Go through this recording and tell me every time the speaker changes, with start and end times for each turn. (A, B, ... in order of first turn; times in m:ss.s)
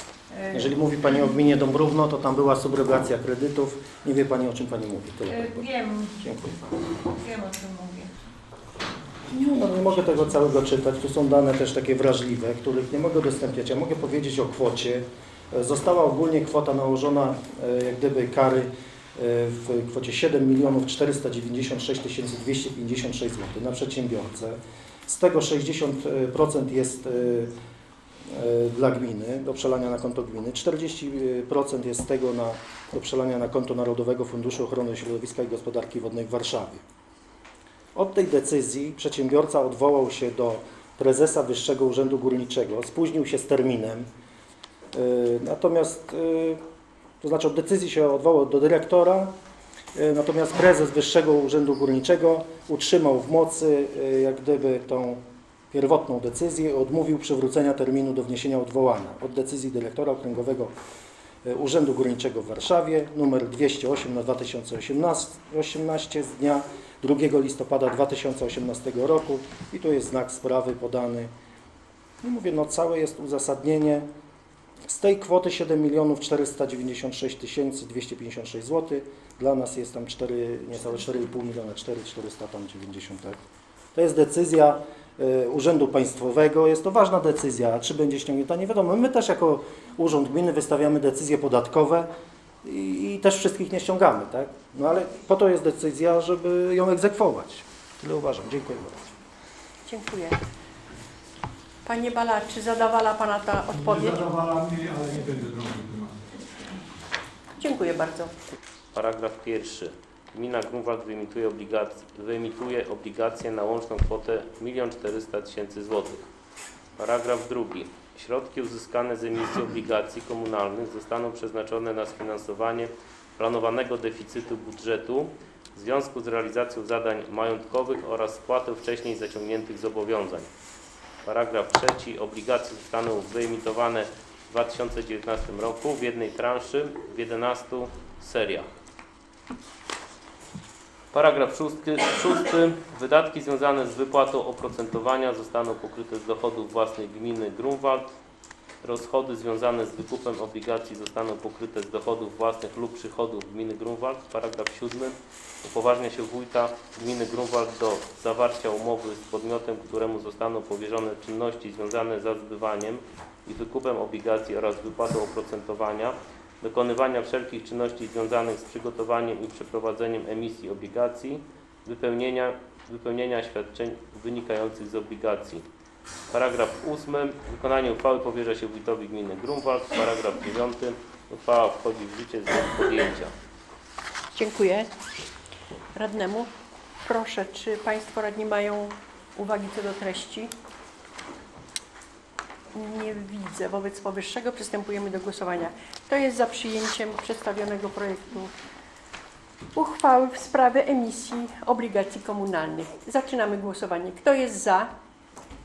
0:00.3-0:00.7 A
0:00.5-0:05.7 B
0:05.3-0:06.1 A
0:06.2-0:06.6 B
0:07.1-0:08.1 A
0:09.3-0:24.6 B
0:25.1-0:27.5 B
0:28.3-0:36.8 B
0:37.9-0:44.1 B
0:44.9-0:46.6 B
0:47.2-0:49.3 B
0:49.9-0:55.2 B
0:55.7-1:00.7 B
1:01.4-1:11.3 B
1:12.2-1:14.0 B
1:14.9-1:23.4 B
1:23.9-1:32.1 B
1:32.6-1:39.1 B
1:39.9-1:40.4 C
1:41.9-1:44.2 C
1:43.7-1:46.2 D
1:47.6-1:48.3 C
1:48.9-1:56.2 E
1:57.0-2:10.5 E
2:11.2-2:18.7 E
2:21.1-2:28.1 E
2:28.8-2:55.6 E
2:56.3-3:03.3 E
3:04.3-3:04.9 C
3:05.9-3:06.5 C
3:07.0-3:10.5 C
3:12.7-3:18.5 C
3:19.8-3:24.9 C